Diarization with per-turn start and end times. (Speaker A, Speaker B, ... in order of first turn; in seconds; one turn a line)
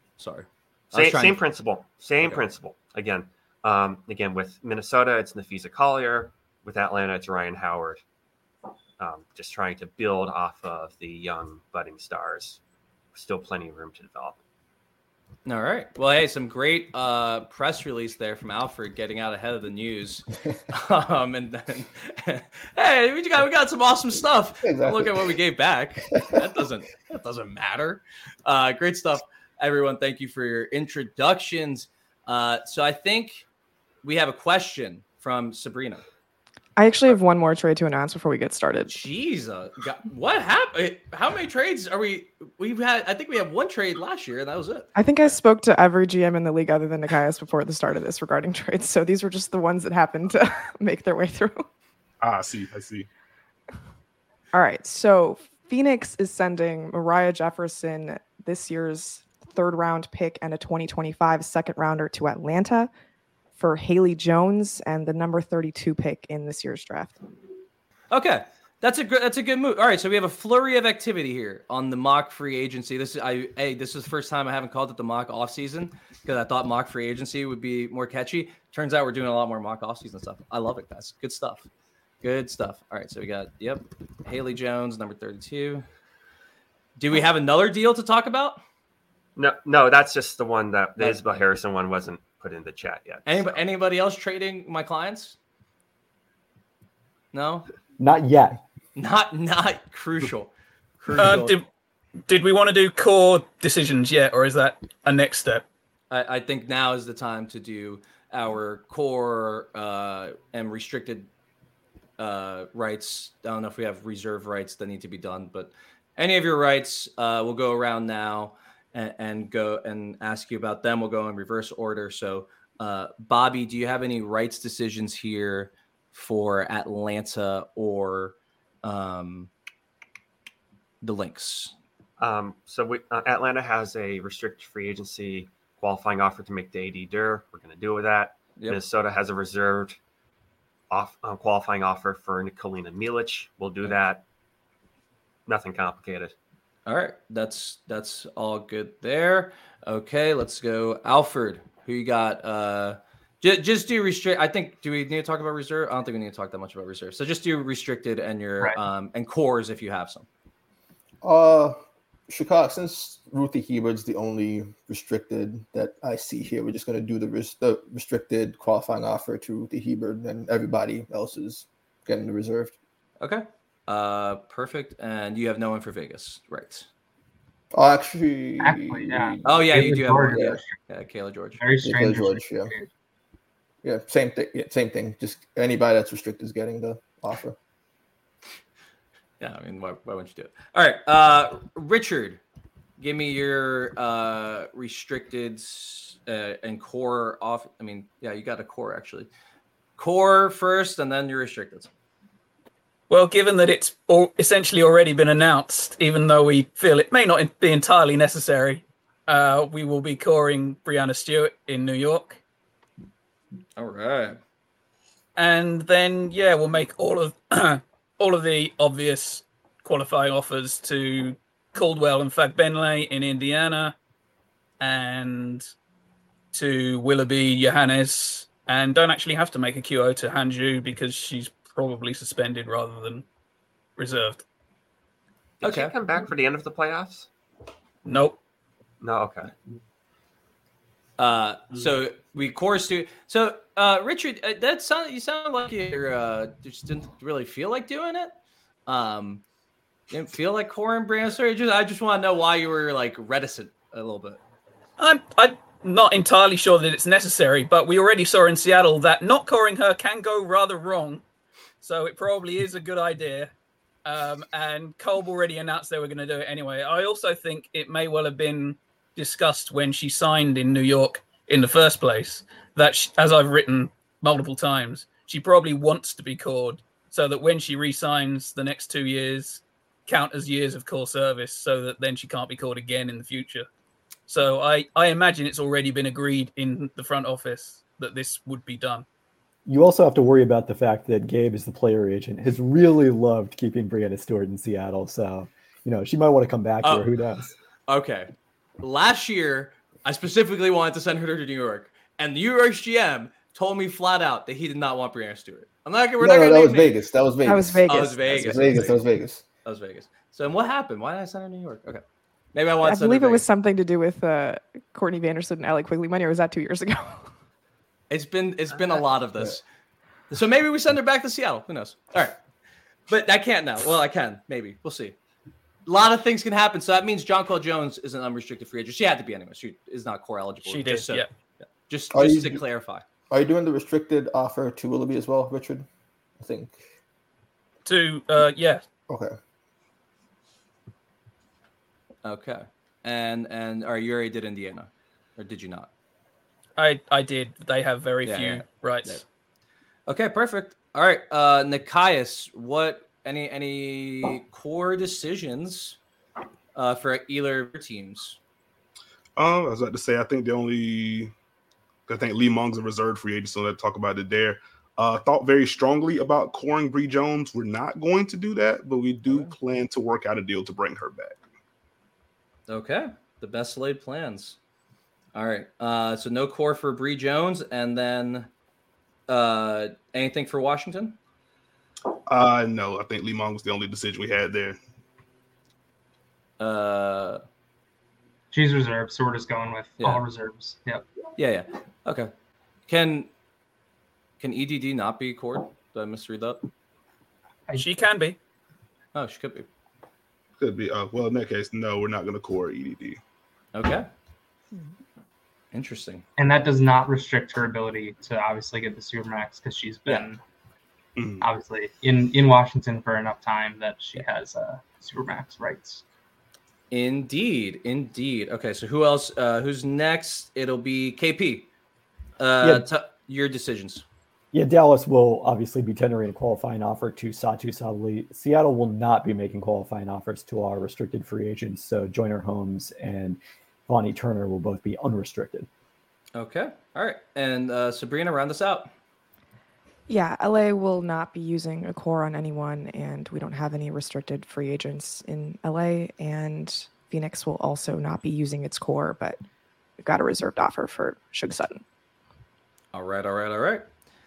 Speaker A: 0.2-1.4
Speaker B: 0.9-8.0
Speaker B: 9.0-12.6
Speaker B: 13.1-14.4
Speaker A: 15.4-33.5
Speaker C: 24.6-25.3
Speaker A: 34.0-36.0
Speaker D: 36.8-39.0
Speaker A: 38.9-44.9
Speaker D: 44.9-51.6
Speaker E: 52.2-53.1
Speaker D: 54.5-62.9
Speaker D: 63.6-67.2
Speaker A: 68.1-81.7
Speaker A: 82.2-85.9
Speaker A: 87.0-88.6
Speaker B: 89.4-93.5
Speaker A: 91.0-91.4
Speaker A: 93.2-95.4
Speaker A: 97.3-97.7
Speaker F: 98.0-98.6
Speaker A: 99.0-101.5
Speaker G: 101.2-101.6
Speaker G: 102.3-105.6
Speaker A: 106.1-111.3
Speaker A: 112.2-129.5
Speaker A: 131.0-131.7
Speaker B: 132.2-140.0
Speaker B: 140.9-144.2
Speaker B: 145.5-146.3
Speaker A: 146.9-160.3
Speaker C: 161.2-172.8
Speaker A: 173.2-176.9
Speaker C: 177.7-180.6
Speaker H: 178.6-180.8
Speaker A: 179.4-181.6
Speaker H: 181.6-182.9
Speaker C: 181.8-182.7
Speaker C: 183.8-187.6
Speaker A: 189.4-192.4
Speaker A: 193.0-199.3
Speaker A: 200.0-201.9
Speaker G: 203.1-212.4
Speaker A: 213.8-214.4
Speaker G: 215.4-224.0
Speaker G: 224.8-225.7
Speaker G: 226.5-233.2
Speaker G: 234.0-234.4
Speaker B: 235.6-237.3
Speaker A: 235.6-235.9
Speaker G: 238.0-238.4
Speaker B: 239.0-239.5
Speaker A: 241.2-248.3
Speaker A: 248.9-249.4
Speaker A: 250.1-254.4
Speaker G: 255.0-261.2
Speaker G: 261.8-263.5
Speaker G: 264.0-283.7
Speaker G: 284.3-289.0
Speaker F: 289.6-297.5
Speaker A: 296.8-297.1
Speaker A: 297.9-306.9
Speaker C: 306.2-309.4
Speaker D: 307.4-308.9
Speaker A: 307.9-309.0
Speaker A: 309.6-312.0
Speaker A: 312.5-313.4
Speaker D: 312.8-317.3
Speaker A: 318.1-319.6
Speaker A: 320.3-322.4
Speaker A: 323.1-325.1
Speaker A: 325.9-333.1
Speaker G: 330.6-331.3
Speaker C: 332.1-332.6
Speaker C: 333.3-335.9
Speaker C: 336.4-336.8
Speaker G: 337.9-338.8
Speaker C: 339.1-339.4
Speaker A: 342.2-345.9
Speaker G: 346.8-349.2
Speaker A: 348.2-349.2
Speaker A: 350.1-356.0
Speaker A: 356.7-358.4
Speaker E: 359.4-361.3
Speaker E: 362.1-371.4
Speaker A: 369.3-369.5
Speaker A: 372.7-374.6
Speaker A: 375.3-378.5
Speaker A: 379.3-381.2
Speaker E: 382.3-384.8
Speaker A: 386.6-387.4
Speaker H: 388.5-391.1
Speaker A: 390.0-390.2
Speaker A: 391.4-392.3
Speaker A: 392.9-393.3
Speaker A: 394.4-396.6
Speaker G: 397.7-398.4
Speaker A: 399.1-399.7
Speaker E: 400.6-403.2
Speaker A: 403.7-404.1
Speaker A: 405.7-406.2
Speaker H: 406.4-410.4
Speaker E: 411.1-411.4
Speaker H: 411.4-416.0
Speaker A: 416.9-421.7
Speaker A: 422.4-424.1
Speaker F: 422.6-422.9
Speaker F: 424.5-435.7
Speaker A: 436.4-438.9
Speaker D: 440.1-449.4
Speaker D: 450.0-451.8
Speaker A: 452.9-453.9